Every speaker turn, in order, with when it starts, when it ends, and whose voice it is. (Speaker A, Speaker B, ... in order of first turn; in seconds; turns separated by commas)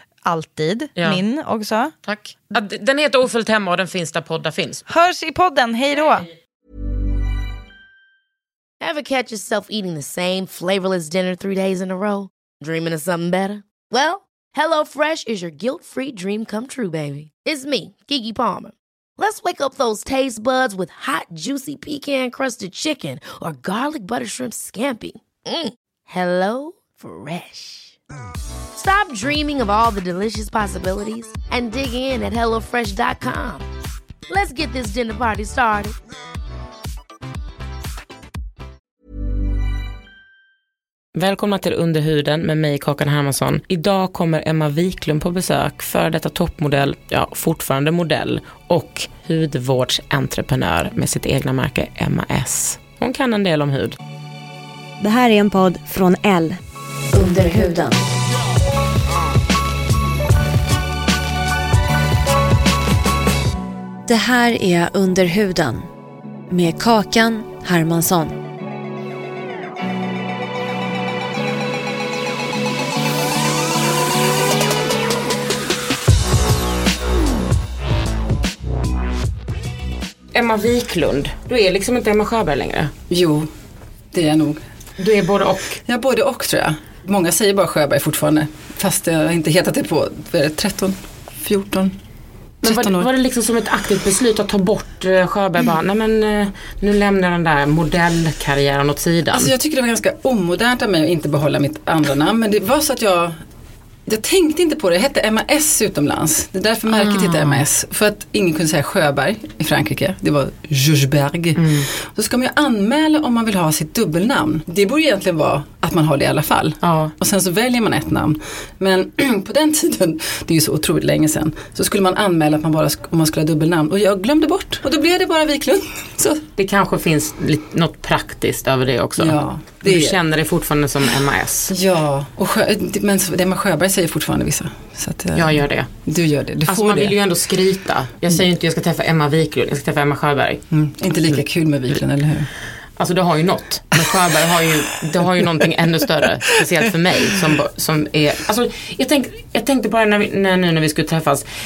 Speaker A: 0.2-1.9, Speaker B: 0.9-1.2, Speaker B: 2.0-4.8, Speaker A: 4.9-6.3, Speaker C: 8.8-28.0, Speaker C: 28.7-33.6, Speaker C: 34.3-35.9, Speaker B: 41.1-54.0, Speaker D: 55.0-56.6, Speaker D: 57.1-58.0, Speaker D: 64.0-65.9, Speaker D: 66.5-68.4, Speaker B: 80.3-82.9, Speaker E: 83.1-83.5, Speaker E: 84.1-84.6, Speaker B: 85.0-85.8, Speaker E: 85.8-92.0, Speaker E: 92.6-93.1, Speaker B: 92.6-99.5, Speaker E: 99.3-103.3, Speaker E: 104.0-126.5, Speaker B: 106.9-107.6, Speaker B: 111.5-111.9, Speaker B: 116.8-117.1, Speaker B: 126.6-131.7, Speaker E: 129.2-130.2, Speaker E: 131.7-137.2, Speaker B: 135.3-135.9, Speaker B: 136.7-140.6, Speaker E: 140.7-142.5, Speaker B: 143.0-151.4, Speaker E: 144.0-144.3